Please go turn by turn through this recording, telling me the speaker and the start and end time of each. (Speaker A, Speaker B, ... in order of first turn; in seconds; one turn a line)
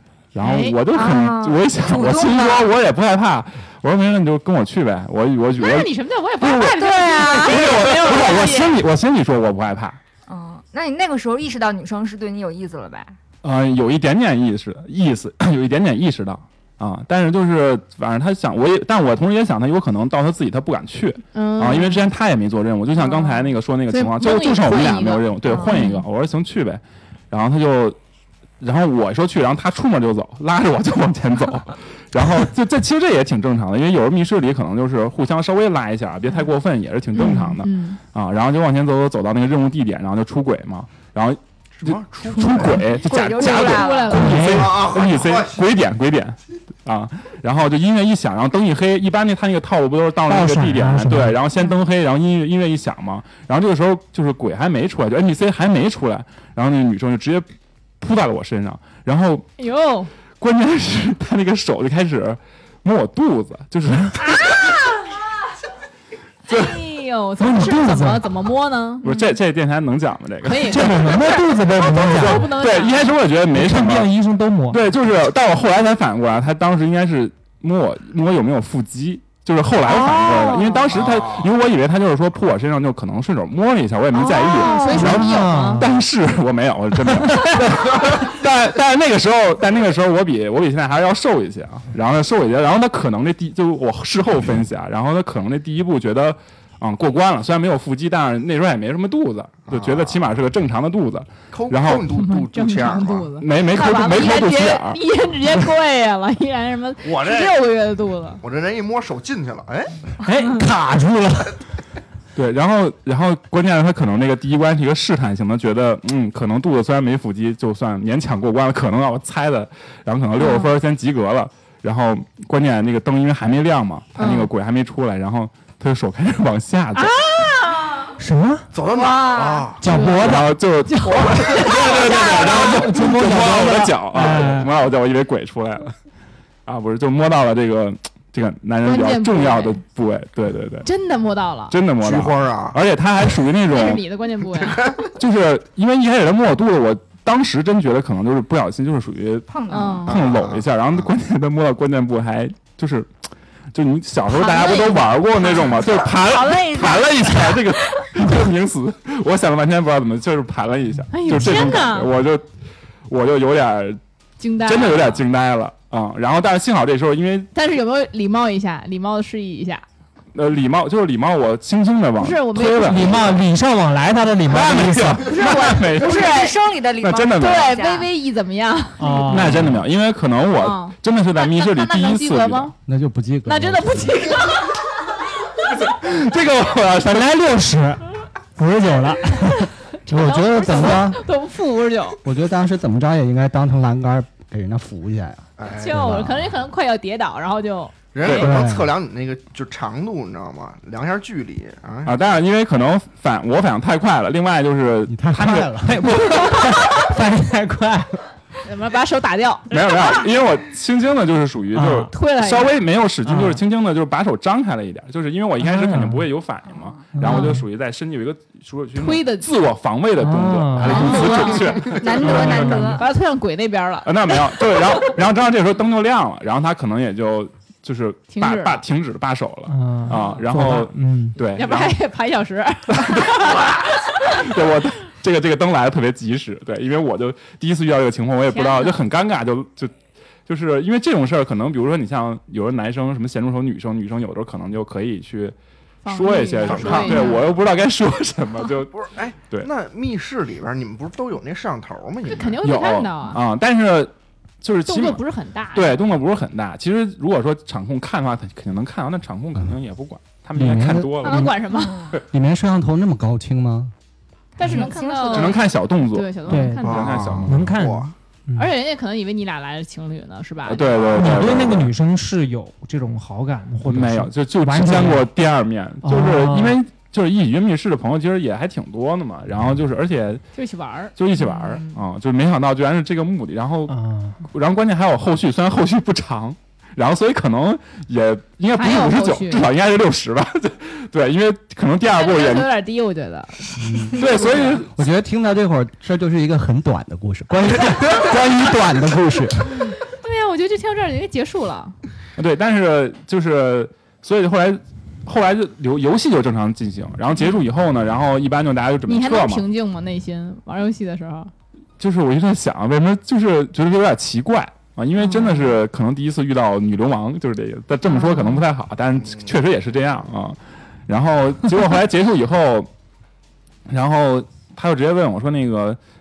Speaker A: 0.3-10.0
Speaker B: 0.4-0.8
Speaker C: 0.9-2.7
Speaker B: 5.6-8.7
Speaker C: 6.6-8.5
Speaker C: 10.3-13.2
Speaker A: 13.4-28.0
Speaker B: 21.3-22.0
Speaker B: 23.9-26.0
Speaker C: 25.5-26.0
Speaker A: 28.6-57.5
Speaker B: 37.1-38.0
Speaker D: 41.8-42.9
Speaker C: 42.8-44.4
Speaker B: 43.3-44.5
Speaker E: 44.1-44.8
Speaker D: 44.4-45.6
Speaker E: 50.3-51.4
Speaker A: 58.0-59.5
Speaker B: 59.6-60.1
Speaker A: 60.4-64.2
Speaker B: 64.2-65.1
Speaker B: 66.5-69.0
Speaker A: 66.5-66.8
Speaker E: 67.4-68.3
Speaker A: 69.0-74.1
Speaker C: 69.0-69.3
Speaker B: 70.4-73.1
Speaker E: 70.6-72.6
Speaker E: 73.5-74.8
Speaker A: 74.7-102.1
Speaker B: 79.8-81.0
Speaker D: 80.9-81.5
Speaker C: 84.1-85.2
Speaker B: 84.5-85.8
Speaker E: 84.8-85.9
Speaker E: 87.1-87.6
Speaker D: 99.7-100.2
Speaker D: 101.5-103.3
Speaker B: 102.1-108.4
Speaker A: 103.4-105.0
Speaker D: 107.0-107.5
Speaker D: 108.4-110.1
Speaker E: 110.2-111.6
Speaker A: 112.3-127.1
Speaker C: 120.4-120.7
Speaker B: 124.1-124.5
Speaker B: 126.9-128.1
Speaker E: 128.2-128.7
Speaker D: 128.7-129.8
Speaker C: 128.9-129.7
Speaker E: 129.8-130.6
Speaker B: 129.9-130.3
Speaker A: 130.1-135.9
Speaker B: 130.9-132.8
Speaker D: 131.1-132.6
Speaker E: 132.3-134.7
Speaker A: 136.7-140.9
Speaker B: 138.8-139.8
Speaker B: 140.8-141.8
Speaker A: 141.7-144.0
Speaker D: 142.0-142.8
Speaker B: 143.7-144.9
Speaker D: 144.6-145.1
Speaker A: 145.2-149.5
Speaker C: 149.5-150.1
Speaker B: 149.7-150.1
Speaker D: 150.1-151.1
Speaker A: 150.1-153.2
Speaker A: 153.7-162.5
Speaker B: 154.3-155.7
Speaker C: 155.4-158.1
Speaker B: 161.1-162.1
Speaker A: 163.1-164.0
Speaker B: 164.4-165.2
Speaker A: 164.6-167.5
Speaker B: 167.5-169.8
Speaker A: 170.3-173.4
Speaker B: 172.2-173.2
Speaker E: 172.8-175.3
Speaker A: 174.4-176.4
Speaker B: 175.2-176.6
Speaker C: 175.8-178.1
Speaker A: 177.0-177.7
Speaker B: 177.4-179.5
Speaker E: 179.0-179.8
Speaker A: 179.3-182.7
Speaker B: 180.6-182.7
Speaker F: 182.8-184.3
Speaker B: 183.4-184.8
Speaker A: 185.7-187.4
Speaker E: 187.1-191.2
Speaker B: 190.1-192.2
Speaker F: 190.1-191.2
Speaker F: 192.2-196.5
Speaker D: 195.6-196.1
Speaker B: 195.8-198.1
Speaker D: 198.1-202.2
Speaker F: 198.2-198.9
Speaker A: 202.1-206.5
Speaker F: 205.1-206.2
Speaker E: 205.8-208.2
Speaker B: 208.6-210.2
Speaker A: 209.7-222.8
Speaker E: 211.7-212.1
Speaker B: 212.1-212.8
Speaker E: 213.2-213.6
Speaker E: 215.6-216.3
Speaker C: 216.7-217.5
Speaker E: 217.1-217.6
Speaker B: 219.0-219.5
Speaker E: 220.2-223.0
Speaker B: 220.8-225.1
Speaker C: 220.9-223.0
Speaker A: 224.0-232.0
Speaker B: 228.3-228.8
Speaker E: 229.7-231.4
Speaker B: 231.6-233.7
Speaker A: 233.0-239.9
Speaker B: 238.5-239.0
Speaker A: 240.4-245.6
Speaker B: 246.0-247.5
Speaker A: 246.1-248.9
Speaker D: 246.6-247.3
Speaker D: 248.9-252.6
Speaker B: 252.3-253.4
Speaker A: 252.6-255.2
Speaker B: 254.9-256.0
Speaker A: 255.7-261.5
Speaker F: 260.5-261.5
Speaker B: 261.2-262.0
Speaker C: 261.7-262.1
Speaker F: 262.3-263.9
Speaker B: 264.6-267.1
Speaker C: 264.6-265.7
Speaker A: 265.3-267.7
Speaker E: 266.5-268.7
Speaker D: 266.8-268.1
Speaker B: 268.5-271.0
Speaker A: 270.6-271.9
Speaker E: 271.1-275.3
Speaker A: 273.8-280.4
Speaker E: 276.0-276.8
Speaker B: 280.5-281.9
Speaker A: 281.1-292.7
Speaker E: 283.9-284.4
Speaker B: 288.7-289.6
Speaker B: 292.1-294.8
Speaker F: 293.8-294.1
Speaker A: 294.1-294.9
Speaker F: 294.9-299.9
Speaker B: 299.8-301.9
Speaker A: 302.4-309.6
Speaker B: 309.1-311.5
Speaker A: 312.0-322.9
Speaker B: 315.2-315.7
Speaker B: 318.1-318.6
Speaker A: 323.9-326.0